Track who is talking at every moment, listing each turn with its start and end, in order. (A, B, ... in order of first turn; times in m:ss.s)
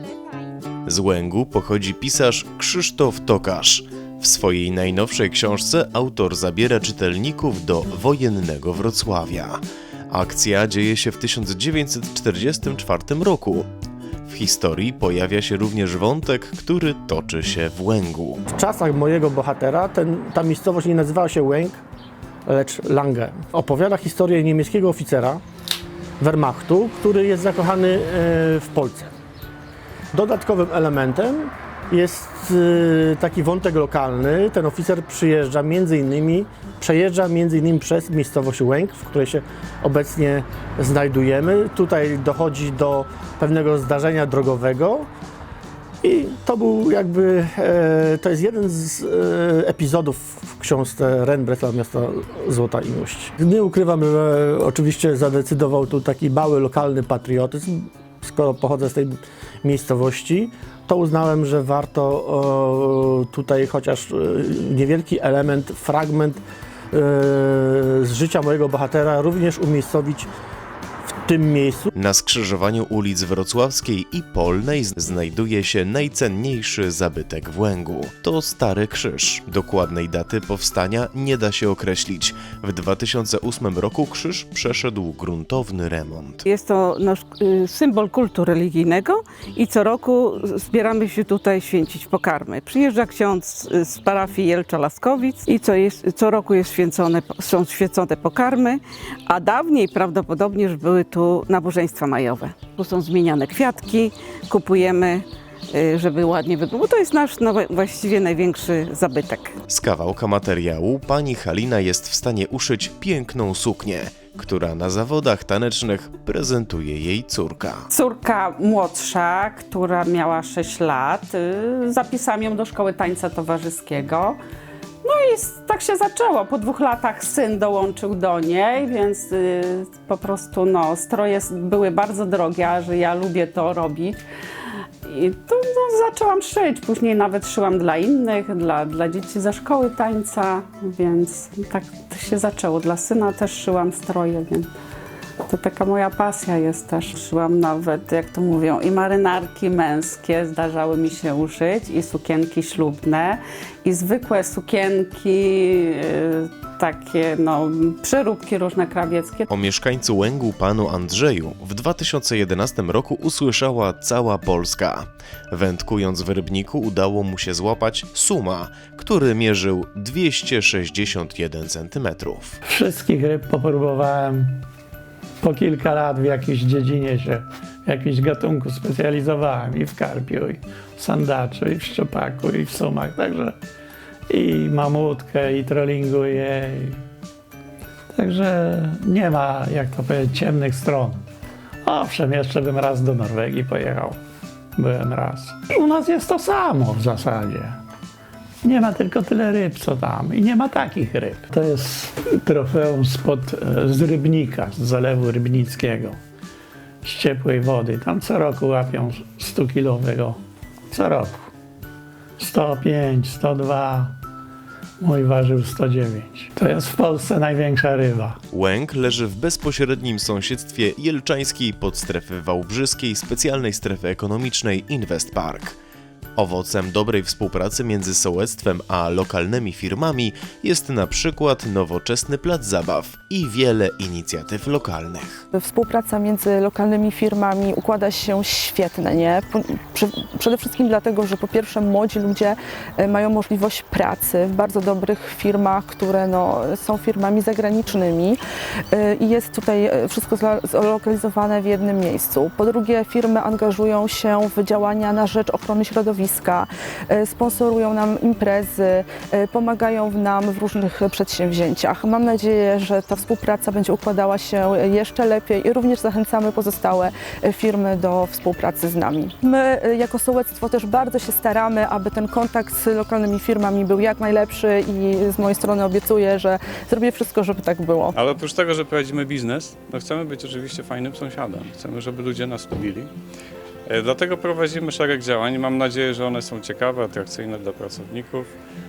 0:00.9-0:13.7 A
0:14.2-0:18.4 A
0:18.5-0:21.8 B
0:22.5-0:25.4 B
0:26.2-0:29.1 B
0:30.1-0:45.1 B
0:46.0-1:10.3 B
1:11.1-1:11.9 B
1:12.0-1:26.4 A
1:26.5-1:49.6 C
1:49.7-1:57.9 A
1:57.9-2:04.4 D
2:05.0-2:14.2 D
2:15.0-2:24.7 D
2:25.5-2:39.5 D
2:39.5-2:52.6 A
2:52.6-2:54.6 E
2:55.4-3:03.6 E
3:04.3-3:07.0 E
3:08.1-3:11.2 E
3:11.8-3:14.2 E
3:14.8-3:17.8 E
3:18.6-3:26.2 E
3:27.0-3:30.4 E
3:30.9-3:31.5 E
3:32.4-3:34.1 E
3:35.0-3:38.4 E
3:38.5-3:45.8 A
3:46.4-3:55.4 A
3:55.5-4:08.4 F
4:08.9-4:38.2 F
4:38.1-4:43.1 G
4:43.9-4:48.5 G